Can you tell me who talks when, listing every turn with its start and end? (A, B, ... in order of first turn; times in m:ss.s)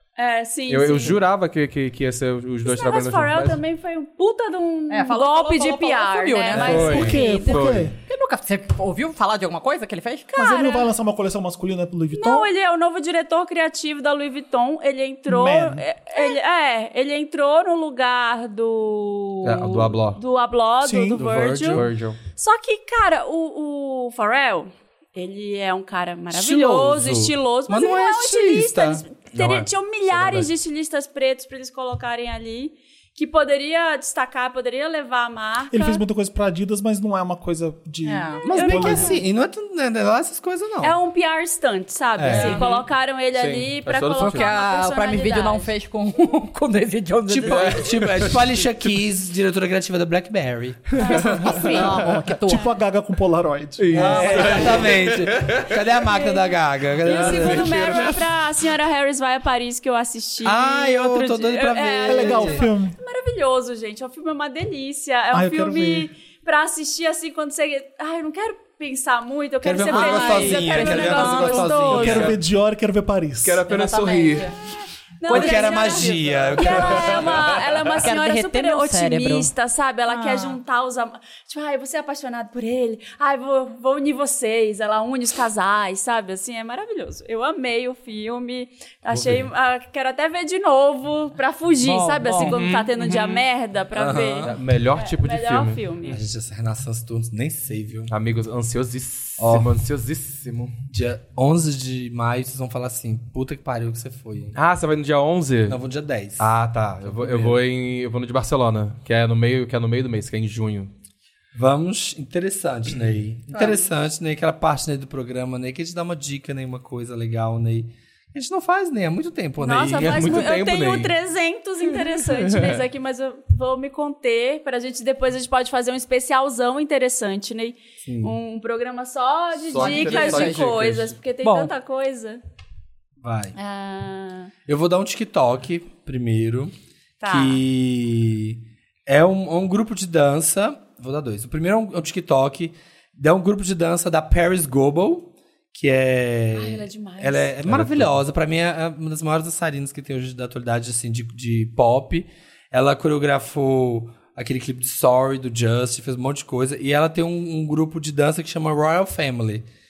0:00.2-0:01.2 A
0:00.7-0:03.6 B
0:02.6-0:07.6 A
0:04.9-0:10.3 C
0:06.5-0:07.9 B
0:06.6-0:07.9 D
0:10.3-0:10.9 A
0:10.4-0:12.5 D
0:12.2-0:36.0 A
0:15.3-0:15.8 D
0:19.4-0:20.2 B
0:20.8-0:21.2 D
0:21.2-0:21.9 E
0:21.7-0:22.2 B
0:26.3-0:29.7 E
0:30.1-0:30.4 B
0:35.7-0:39.2 D
0:38.0-0:38.5 C
0:38.5-0:41.0 E
0:38.5-0:39.2 A
0:40.8-0:45.7 A
0:42.2-0:42.6 E
0:42.3-0:44.5 B
0:42.3-0:42.7 C
0:44.2-0:48.0 C
0:47.3-0:51.2 E
0:47.4-0:49.0 B
0:51.0-0:51.9 B
0:51.0-0:51.8 A
0:51.1-0:52.7 C
0:51.8-0:54.5 D
0:53.8-0:55.8 B
0:53.9-0:58.1 E
0:56.1-1:12.3 A
0:57.1-0:58.3 B
1:00.4-1:02.7 E
1:02.1-1:03.0 D
1:05.3-1:06.1 D
1:09.6-1:12.4 E
1:09.9-1:11.7 C
1:11.4-1:12.4 B
1:11.9-1:13.6 D
1:13.4-1:14.5 B
1:13.7-1:14.6 C
1:15.2-1:36.2 A
1:15.3-1:17.4 E
1:15.3-1:16.3 C
1:15.7-1:17.9 B
1:18.0-1:19.5 C
1:20.1-1:20.6 C
1:29.1-1:29.4 B
1:31.8-1:32.6 C
1:32.6-1:33.3 B
1:33.9-1:34.6 E
1:34.4-1:35.9 B
1:36.1-1:38.2 E
1:38.1-1:40.7 B
1:39.4-1:39.7 E
1:40.9-1:44.6 E
1:44.6-1:45.8 B
1:45.7-1:47.6 E
1:46.4-1:50.9 B
1:51.6-2:00.4 E
1:53.5-1:53.9 A
1:59.6-2:12.4 A
2:00.0-2:01.2 B
2:02.0-2:02.8 B
2:08.1-2:08.4 B
2:09.7-2:11.2 B
2:09.8-2:10.7 C
2:11.4-2:11.7 C
2:13.2-2:13.6 E
2:13.6-2:14.5 A
2:14.7-2:16.7 E
2:17.2-2:17.6 A
2:17.2-2:39.6 E
2:26.6-2:27.6 A
2:27.7-2:28.2 B